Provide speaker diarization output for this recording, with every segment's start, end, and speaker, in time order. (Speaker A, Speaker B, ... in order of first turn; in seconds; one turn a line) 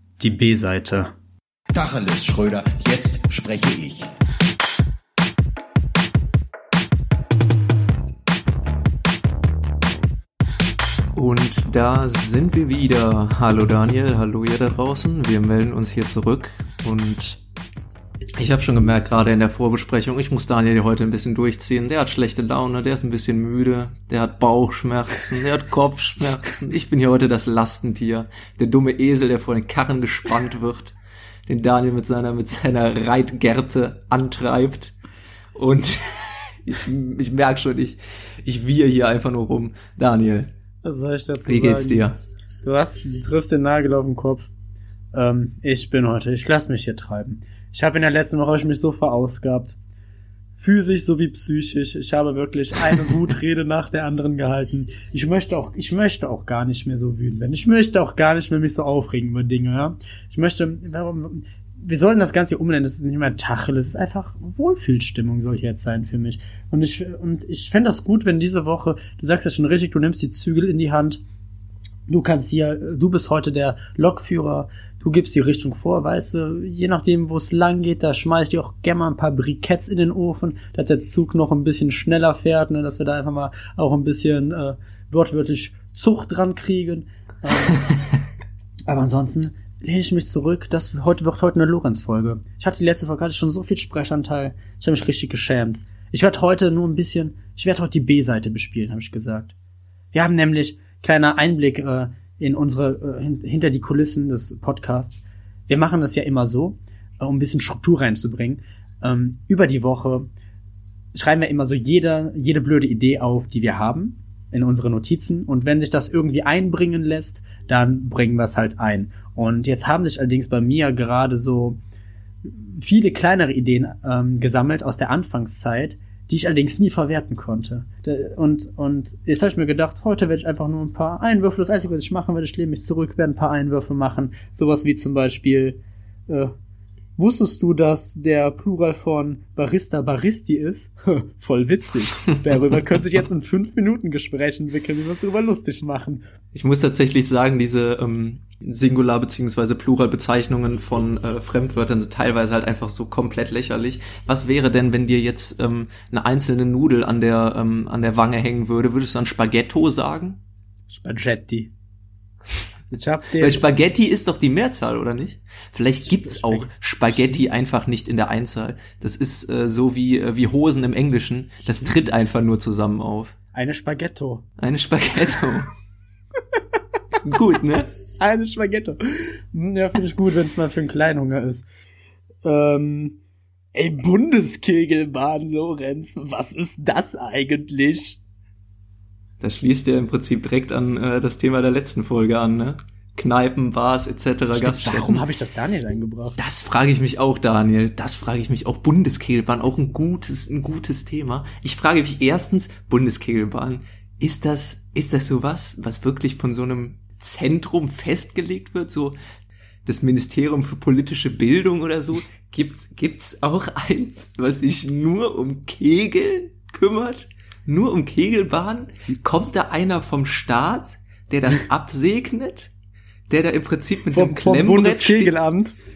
Speaker A: 0.2-1.1
Speaker B: 1.7-4.1
Speaker C: 11.2-17.4
Speaker C: 18.4-31.0
Speaker C: 31.5-35.0
Speaker C: 35.5-40.5
Speaker A: 40.8-42.1
Speaker C: 41.5-42.2
Speaker A: 42.6-44.5
Speaker A: 45.1-49.8
Speaker A: 50.6-71.2
Speaker A: 72.1-87.8
Speaker A: 88.9-99.5
Speaker A: 100.1-110.3
Speaker A: 111.1-121.8
Speaker A: 122.5-136.5
Speaker A: 137.2-146.2
Speaker C: 146.5-160.4
Speaker A: 160.9-161.7
Speaker A: 162.9-163.7
Speaker C: 163.4-173.3
Speaker A: 166.1-167.5
Speaker A: 173.5-174.4
Speaker C: 174.6-175.7
Speaker C: 177.2-177.9
Speaker A: 178.2-181.7
Speaker A: 182.4-183.2
Speaker A: 183.8-188.2
Speaker C: 189.4-195.2
Speaker A: 194.5-196.4
Speaker C: 196.4-209.2
Speaker C: 209.9-222.7
Speaker C: 223.3-225.3
Speaker A: 224.1-225.8